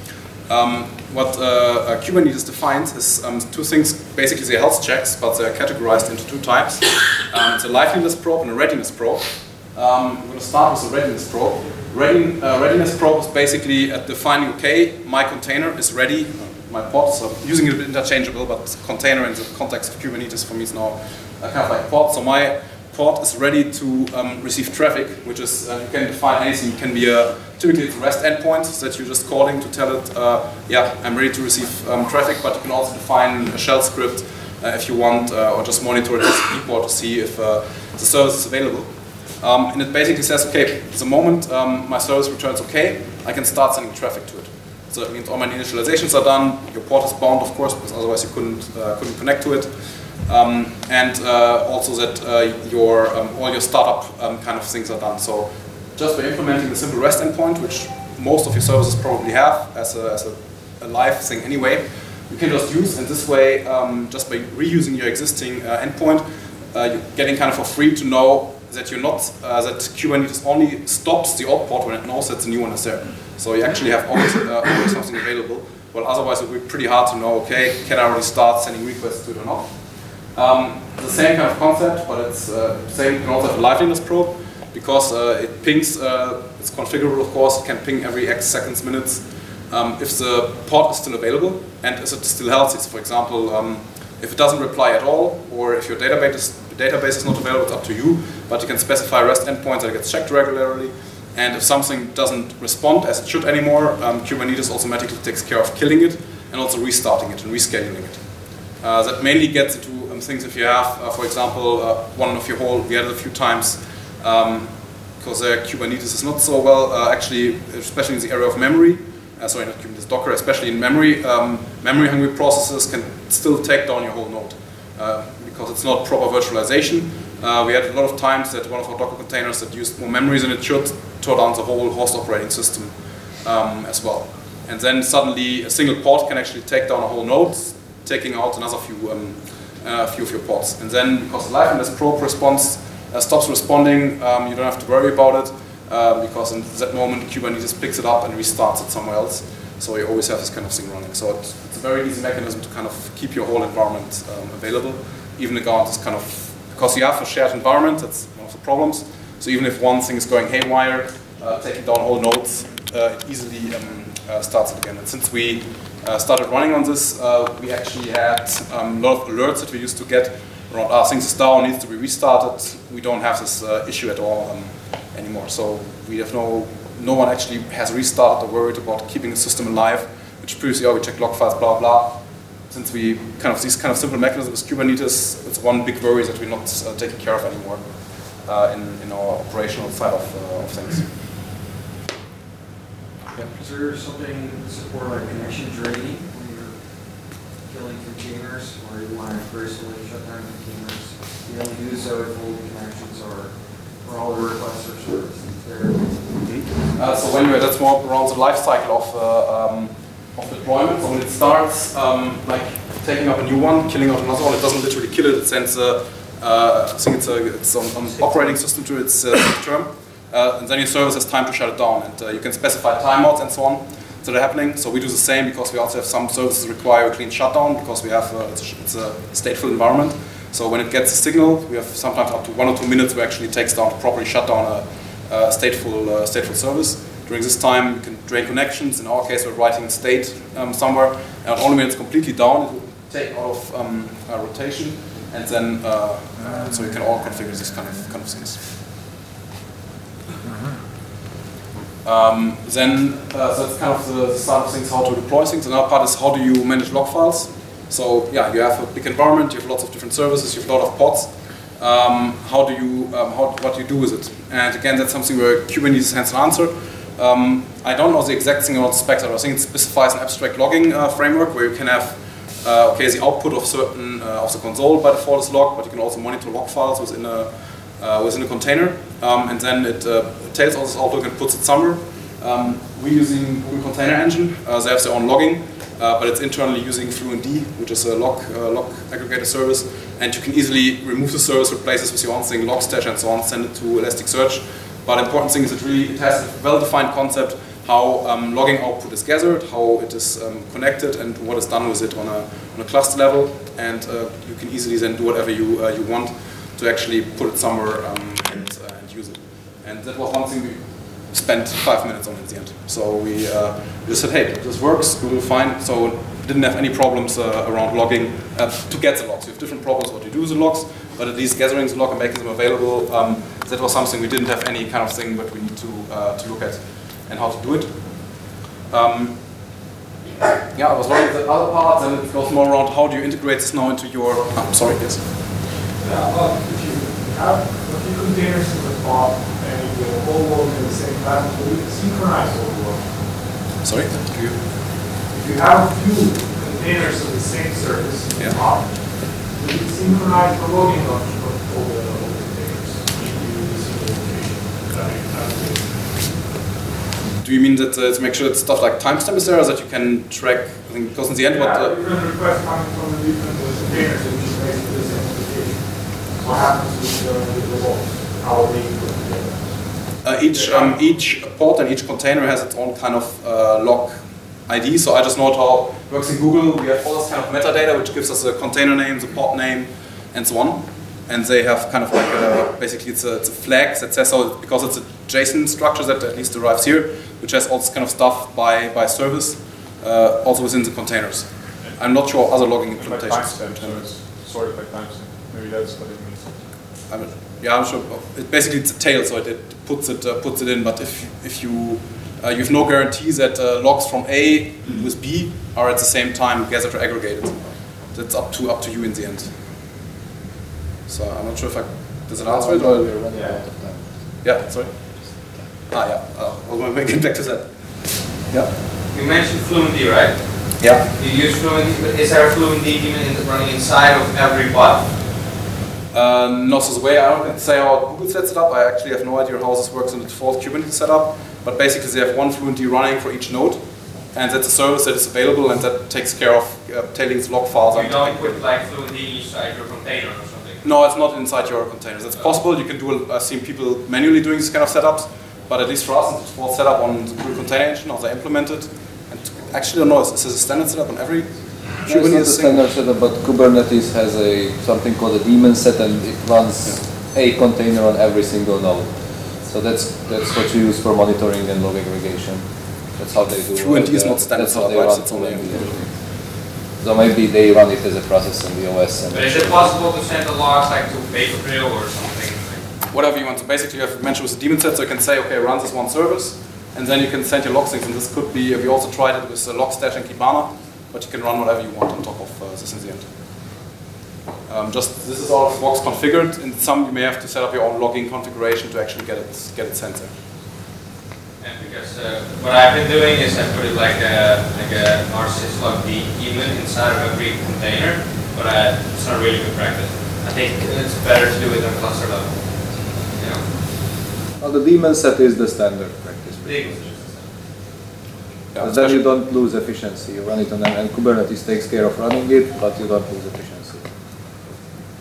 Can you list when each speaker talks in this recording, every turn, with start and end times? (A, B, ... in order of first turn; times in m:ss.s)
0:00.4-1:48.2 A
1:48.8-3:11.2 A
3:13.4-3:26.4 B
3:26.4-4:08.7 A
4:12.0-5:29.4 A
5:30.7-5:35.4 A
5:36.0-5:43.4 C
5:43.8-5:44.6 A
5:45.2-5:56.5 C
5:57.4-6:02.0 A
6:01.4-6:11.0 C
6:10.2-6:34.0 A
6:33.0-6:36.8 D
6:37.1-6:49.6 A
6:51.1-6:53.1 A
6:52.4-6:54.6 E
6:53.3-6:53.6 C
6:54.4-6:58.7 A
6:55.3-6:55.7 E
6:59.1-7:05.2 F
7:00.8-7:01.1 A
7:06.1-7:18.6 A
7:17.9-7:20.8 F
7:20.8-7:32.8 A
7:32.0-7:49.9 E
7:43.8-7:46.0 A
7:49.3-7:52.9 F
7:53.1-8:03.3 A
8:04.7-8:10.3 A
8:11.6-8:23.6 F
8:24.6-8:27.4 E
8:26.6-8:27.4 F
8:28.7-8:29.2 A
8:28.8-8:34.1 E